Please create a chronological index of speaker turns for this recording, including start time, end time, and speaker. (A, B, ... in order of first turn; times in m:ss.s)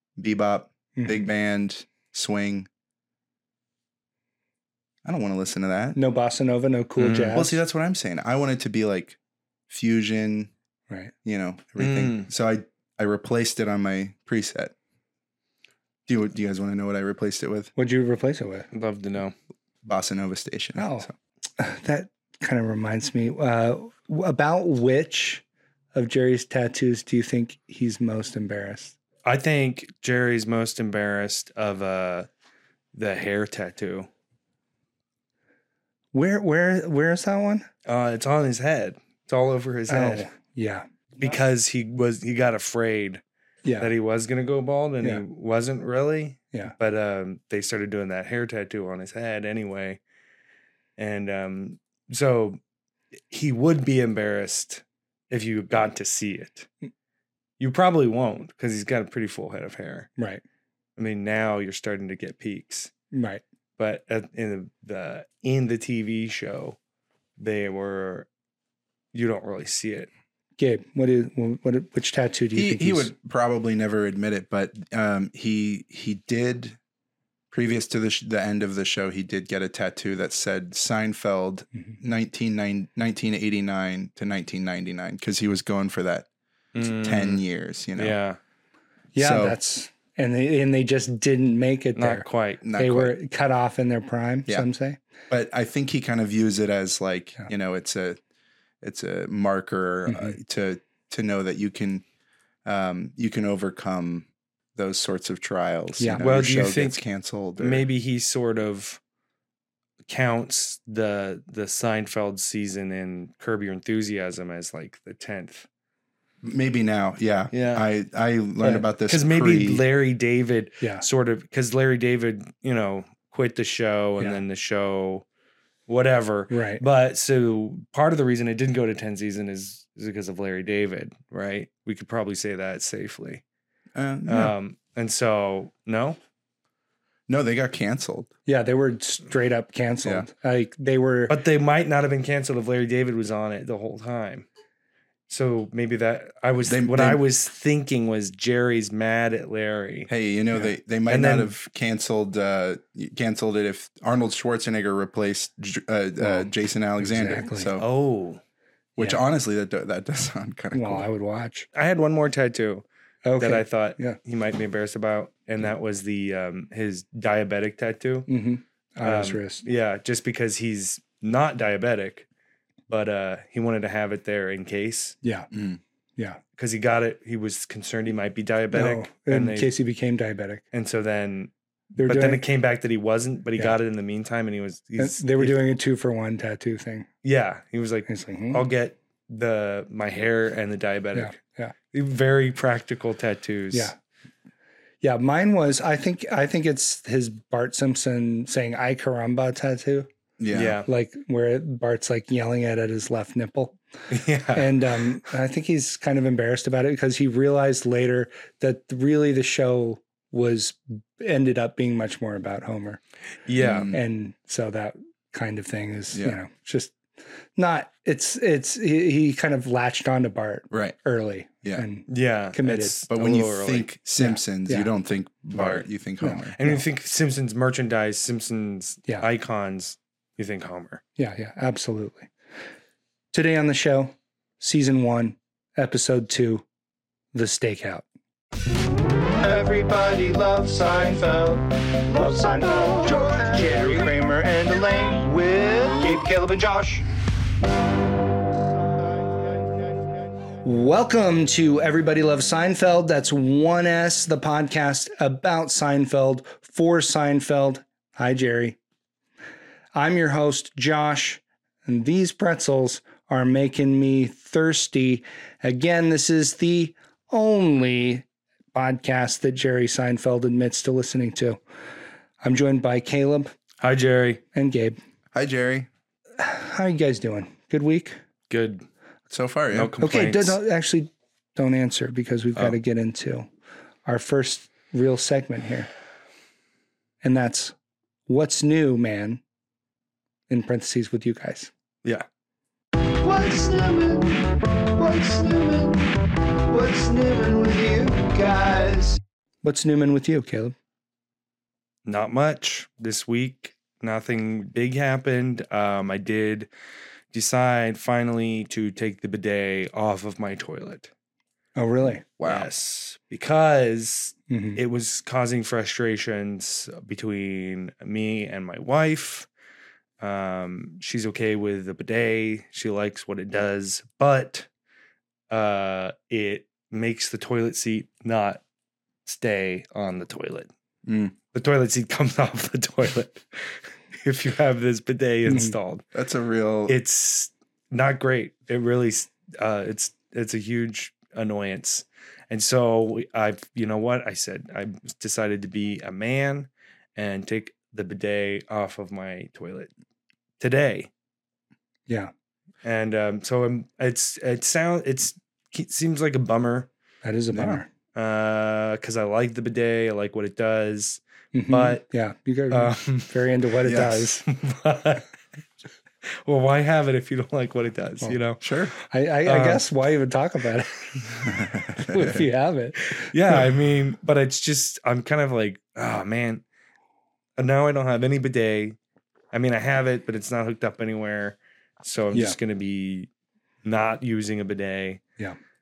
0:00.2-0:02.7 A
0:01.0-0:01.3 B
0:05.0-0:06.0 A
0:05.9-0:07.6 B
0:07.0-0:07.4 C
0:07.3-0:09.2 A
0:09.7-0:10.5 A
0:11.2-0:14.7 A
0:11.8-0:12.3 C
0:16.1-0:17.7 A
0:17.8-0:18.7 B
0:18.7-0:19.3 C
0:19.8-0:21.1 A
0:20.8-0:21.1 B
0:21.6-0:25.4 B
0:25.9-0:29.0 B
0:29.2-0:32.3 C
0:32.9-0:34.1 C
0:36.1-0:37.7 B
0:37.9-0:40.3 C
0:39.9-0:40.8 B
0:41.2-0:43.2 C
0:43.6-0:43.9 B
0:43.8-0:50.0 C
0:51.0-0:52.6 C
0:53.3-0:56.7 C
0:57.6-1:00.1 C
1:01.0-1:02.9 C
1:03.1-1:03.4 B
1:03.8-1:06.8 C
1:07.4-1:08.3 C
1:09.1-1:10.1 C
1:10.6-1:13.1 B
1:12.5-1:16.8 A
1:17.5-1:26.3 A
1:26.7-1:27.4 C
1:26.8-1:28.2 A
1:28.0-1:28.4 C
1:29.1-1:32.2 B
1:29.2-1:29.6 A
1:31.9-1:32.6 C
1:32.6-1:33.1 A
1:32.8-1:35.0 B
1:35.3-1:38.2 A
1:38.8-1:42.0 A
1:40.1-1:40.4 B
1:42.6-1:47.9 A
1:46.0-1:46.2 B
1:46.2-1:47.0 C
1:47.6-1:49.0 C
1:50.1-1:55.7 C
1:56.4-1:59.8 A
1:57.5-1:57.8 C
1:59.0-2:05.2 C
2:05.9-2:13.4 C
2:06.5-2:06.8 B
2:14.0-2:14.5 A
2:14.3-2:16.2 C
2:17.3-2:18.3 A
2:18.5-2:21.4 B
2:21.3-2:24.5 C
2:25.3-2:30.1 C
2:26.7-2:27.2 A
2:30.1-2:37.9 A
2:31.1-2:31.5 C
2:36.2-2:37.7 B
2:37.8-2:38.4 C
2:39.0-2:41.1 A
2:40.7-2:41.7 B
2:41.8-2:42.8 C
2:43.2-2:44.2 B
2:43.4-2:48.3 C
2:48.3-2:49.6 B
2:49.0-2:52.2 C
2:52.9-2:55.2 C
2:55.5-2:55.8 A
2:56.6-2:59.7 C
2:58.7-3:00.6 B
3:00.7-3:01.5 C
3:02.0-3:02.4 B
3:02.0-3:05.6 C
3:05.0-3:07.1 B
3:07.2-3:11.4 C
3:08.1-3:08.6 B
3:11.2-3:11.7 B
3:11.9-3:13.9 C
3:15.0-3:20.1 B
3:20.4-3:20.8 A
3:20.5-3:20.9 C
3:20.9-3:23.8 B
3:24.1-3:24.8 C
3:24.5-3:33.0 B
3:33.4-3:33.9 C
3:33.6-3:34.0 A
3:33.9-3:37.0 B
3:36.1-3:36.4 A
3:37.6-3:43.0 B
3:40.7-3:41.0 A
3:42.1-3:43.9 C
3:43.1-3:46.6 A
3:44.2-3:44.9 B
3:45.6-3:45.8 C
3:46.2-3:46.8 B
3:46.6-3:51.0 C
3:51.2-3:52.3 B
3:53.3-3:56.6 B
3:57.3-3:58.0 B
3:59.4-4:06.3 D
4:02.2-4:05.3 B
4:05.8-4:07.0 B
4:10.6-4:18.8 B
4:19.9-4:31.6 B
4:32.4-4:33.5 B
4:33.8-4:34.4 C
4:34.6-4:35.0 B
4:35.3-4:35.9 A
4:36.4-4:38.2 B
4:38.5-4:38.8 C
4:39.3-4:39.9 A
4:39.7-4:40.6 C
4:40.0-4:43.4 B
4:44.1-4:45.9 B
4:47.2-4:47.7 B
4:48.3-4:49.4 B
4:50.5-4:51.7 B
4:53.2-4:59.2 D
4:59.6-5:00.8 B
5:02.1-5:06.7 C
5:07.3-5:11.1 C
5:11.8-5:12.2 B
5:12.4-5:12.7 A
5:12.4-5:19.5 C
5:14.5-5:14.8 B
5:20.2-5:24.7 C
5:25.5-5:28.6 C
5:29.2-5:30.7 C
5:31.1-5:31.4 A
5:31.5-5:36.0 C
5:35.4-5:35.8 B
5:36.1-5:36.9 A
5:36.9-5:49.9 C
5:50.6-5:51.1 C
5:52.8-5:56.9 C
5:57.2-5:57.9 B
5:57.5-5:57.8 A
5:58.2-6:02.0 C
6:01.5-6:04.4 B
6:02.7-6:03.3 C
6:03.8-6:04.3 A
6:04.4-6:05.3 C
6:06.3-6:08.6 C
6:08.6-6:08.9 A
6:09.1-6:13.2 B
6:09.4-6:09.8 C
6:11.4-6:12.5 A
6:13.1-6:16.6 C
6:17.6-6:19.0 C
6:19.5-6:23.3 C
6:22.3-6:22.6 B
6:23.8-6:25.2 C